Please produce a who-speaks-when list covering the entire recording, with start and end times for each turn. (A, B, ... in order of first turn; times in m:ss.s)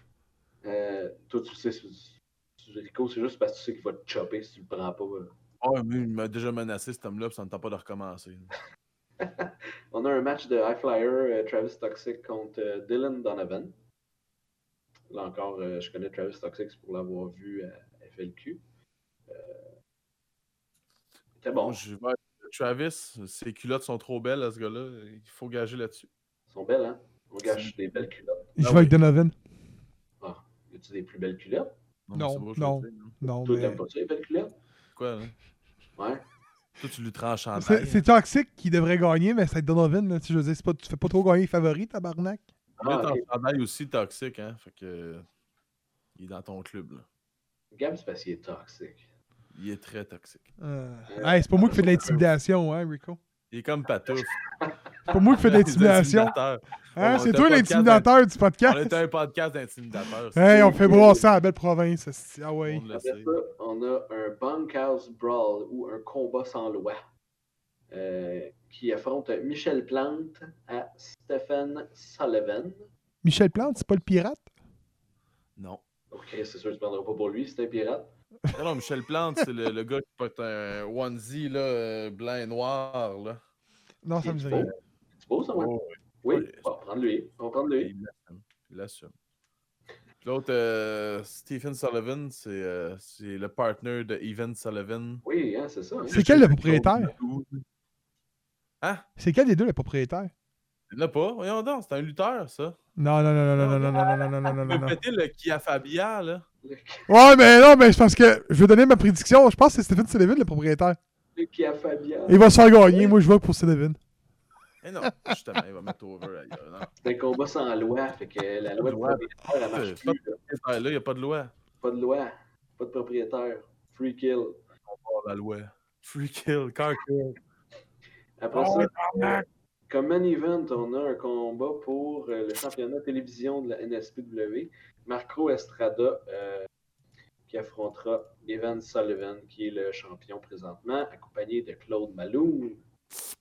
0:00.6-0:05.3 A
0:05.6-0:08.5 B
0:09.2-0:13.8 A
0:15.1-0:18.6 A
0:19.3-0:19.7 A
0:21.4-0:21.8 A
0:21.5-0:26.1 B
0:26.5-0:28.6 A
0:27.4-0:27.7 B
0:28.6-0:29.3 C
0:28.6-0:29.0 B
0:30.2-0:31.7 A
0:32.1-0:33.2 B
0:32.1-0:33.8 C
0:33.4-0:34.5 A
0:35.0-0:35.4 B
0:36.0-0:36.2 A
0:36.8-0:38.0 B
0:37.6-0:42.4 C
0:42.8-0:43.2 A
0:42.8-0:45.2 B
0:46.2-0:47.0 B
0:47.7-0:49.1 A
0:49.5-0:50.5 B
0:50.6-0:53.2 C
0:51.1-0:52.3 A
0:53.5-0:54.4 B
0:54.1-0:55.4 A
0:55.1-0:56.4 C
0:55.4-0:58.1 B
0:57.0-0:59.0 C
0:58.6-1:00.8 B
1:00.4-1:02.8 C
1:00.5-1:01.3 A
1:02.6-1:03.4 B
1:02.9-1:07.0 A
1:07.9-1:12.8 A
1:13.2-1:14.4 C
1:15.6-1:15.8 B
1:16.1-1:18.1 A
1:18.5-1:23.4 B
1:24.0-1:24.7 C
1:24.2-1:25.7 A
1:25.5-1:26.7 B
1:26.2-1:27.9 A
1:27.8-1:29.1 B
1:30.2-1:35.2 B
1:35.2-1:36.2 A
1:36.1-1:37.6 B
1:36.1-1:37.1 C
1:39.2-1:40.3 C
1:40.9-1:42.8 B
1:43.0-1:45.0 C
1:43.6-1:46.4 B
1:46.6-1:47.2 A
1:47.1-1:51.0 C
1:51.4-1:53.2 A
1:52.3-1:54.0 C
1:54.8-1:56.9 B
1:57.0-2:00.4 A
1:58.8-2:01.5 B
2:01.8-2:04.6 A
2:04.9-2:07.4 B
2:08.4-2:16.7 A
2:08.6-2:09.4 C
2:08.7-2:08.9 B
2:17.5-2:22.8 A